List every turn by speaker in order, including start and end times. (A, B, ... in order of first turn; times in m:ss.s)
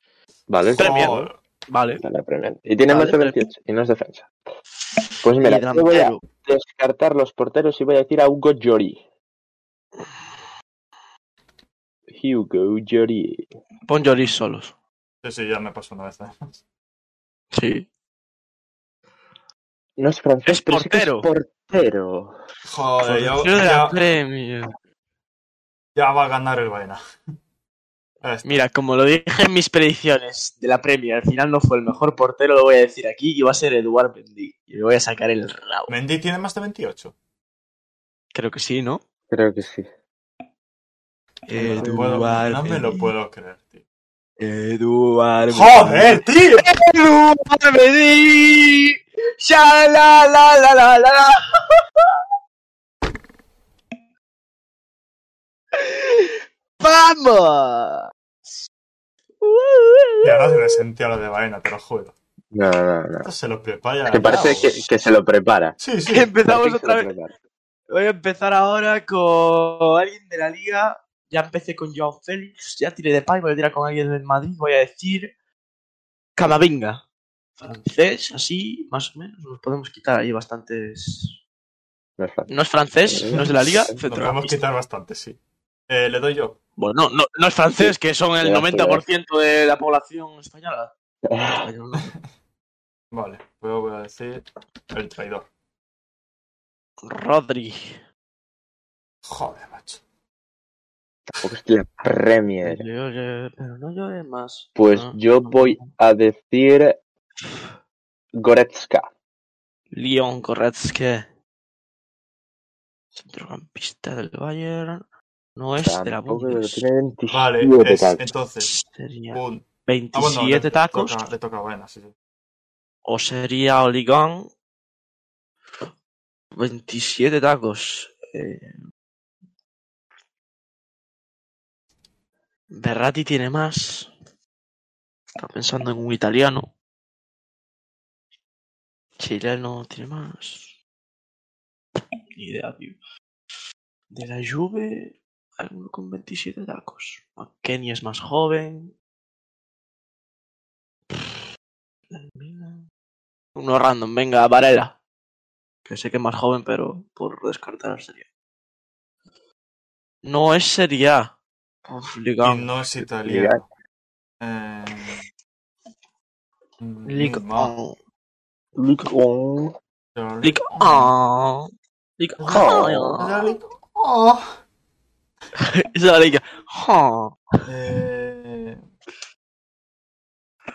0:00.5-0:01.1 A
0:00.8-0:02.0 B
0:00.8-0:01.4 C
0:02.0-0:04.3 A
0:02.9-0:03.4 B
0:05.2-0:09.0 A
0:05.4-0:06.2 B
0:12.1-0:13.5 A
0:13.9-0:14.7 B
0:15.2-0:16.6 C
0:17.5-0:17.8 B
0:20.0-0:22.3 A
0:20.4-0:21.3 B
0:22.6-0:24.0 C
0:23.0-0:24.7 B
0:26.0-0:27.0 C
0:28.2-0:28.6 C
0:28.4-0:35.9 B
0:35.9-0:37.1 C
0:38.3-0:39.0 B
0:39.3-0:39.8 A
0:41.5-0:43.1 B
0:41.5-0:43.8 C
0:41.7-0:42.1 A
0:44.4-0:52.2 B
0:45.5-0:46.7 C
0:55.7-0:58.1 B
0:59.4-1:00.8 B
1:00.2-1:02.1 C
1:02.5-1:03.3 A
1:03.2-1:04.8 C
1:04.1-1:05.8 A
1:04.2-1:04.8 B
1:05.8-1:06.3 C
1:06.1-1:07.1 B
1:06.4-1:07.3 A
1:07.9-1:15.3 B
1:16.4-1:17.0 B
1:17.6-1:21.4 B
1:22.2-1:22.5 A
1:22.5-1:24.6 B
1:23.1-1:24.0 A
1:23.3-1:25.4 C
1:25.9-1:26.6 C
1:26.8-1:30.9 B
1:27.8-1:29.0 A
1:31.2-1:31.6 A
1:31.4-1:32.1 B
1:33.1-1:35.5 C
1:37.0-1:38.0 B
1:39.2-1:40.0 C
1:41.3-1:42.8 A
1:42.1-1:45.9 B
1:44.8-1:47.0 A
1:48.4-1:49.1 A
1:49.9-1:51.3 B
1:53.2-1:55.0 B
1:55.6-1:56.8 B
1:55.8-1:58.2 A
1:57.3-1:58.7 C
1:58.6-2:01.2 B
1:59.3-2:02.1 C
2:03.0-2:04.5 B
2:06.5-2:08.8 B
2:12.7-2:14.1 B
2:15.4-2:16.7 B
2:19.2-2:20.7 B
2:22.3-2:23.0 B
2:24.1-2:28.9 B
2:31.1-2:31.4 B
2:32.1-2:32.8 B
2:33.5-2:35.0 B
2:35.8-2:38.2 B
2:40.2-2:41.3 B
2:41.8-2:42.7 B
2:42.4-2:43.6 C
2:43.2-2:43.6 A
2:44.4-2:45.2 C
2:46.8-2:47.7 C
2:47.1-2:47.9 B
2:48.8-2:49.7 A
2:50.1-2:51.1 C
2:50.4-2:53.4 B
2:52.4-2:54.5 C
2:52.5-2:53.2 A
2:55.6-2:57.4 B
2:57.6-2:58.8 C